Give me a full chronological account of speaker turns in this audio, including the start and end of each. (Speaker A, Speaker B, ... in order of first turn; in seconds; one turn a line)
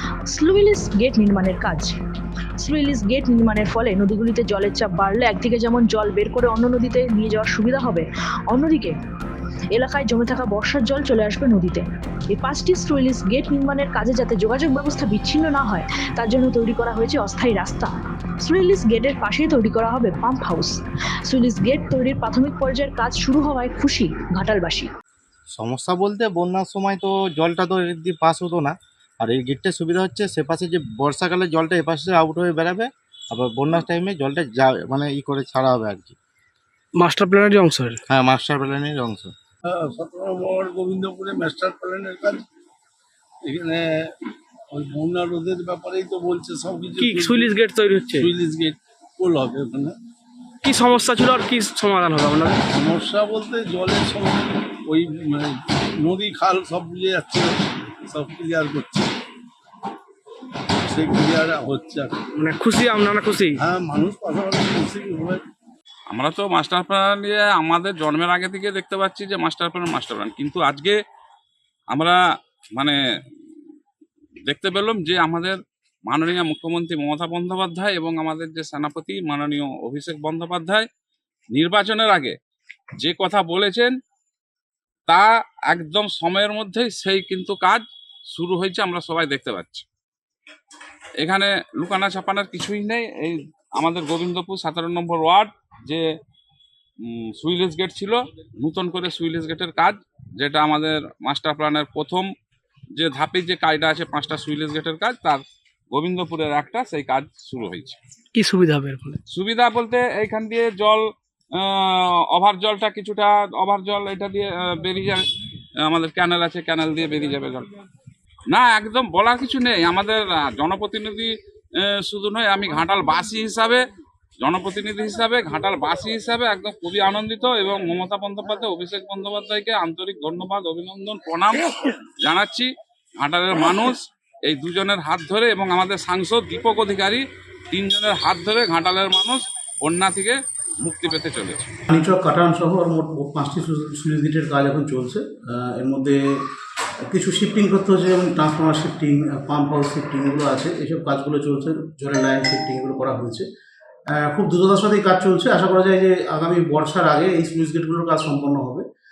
Speaker A: 0.3-1.9
Speaker A: 2.6-8.9
Speaker A: 9.7-20.8
Speaker A: 21.3-24.9
Speaker B: 25.5-36.2
Speaker C: 37.0-38.0
Speaker B: 38.1-39.3
Speaker D: 39.7-42.4
Speaker D: 43.5-43.9
Speaker D: 44.7-47.5
Speaker C: 47.0-48.3
Speaker D: 48.2-49.9
Speaker C: 50.6-52.6
Speaker D: 52.8-55.5
Speaker D: 56.0-57.5
Speaker D: 58.1-59.0
Speaker D: 60.9-62.1
Speaker C: 62.4-63.6
Speaker D: 63.7-65.4
Speaker E: 66.1-71.0
Speaker E: 71.9-72.2
Speaker E: 74.5-80.9
Speaker E: 81.5-82.3
Speaker E: 83.0-83.9
Speaker E: 85.1-89.8
Speaker E: 91.2-96.0
Speaker E: 97.0-102.3
Speaker E: 103.0-108.0
Speaker C: 108.3-109.2
Speaker E: 109.3-111.0
Speaker E: 111.5-115.2
Speaker E: 115.9-117.7
Speaker E: 118.5-121.3
Speaker E: 121.8-123.8
Speaker E: 124.4-131.7
Speaker E: 132.2-141.7
Speaker F: 141.9-146.4
Speaker F: 147.1-153.4
Speaker F: 154.1-158.8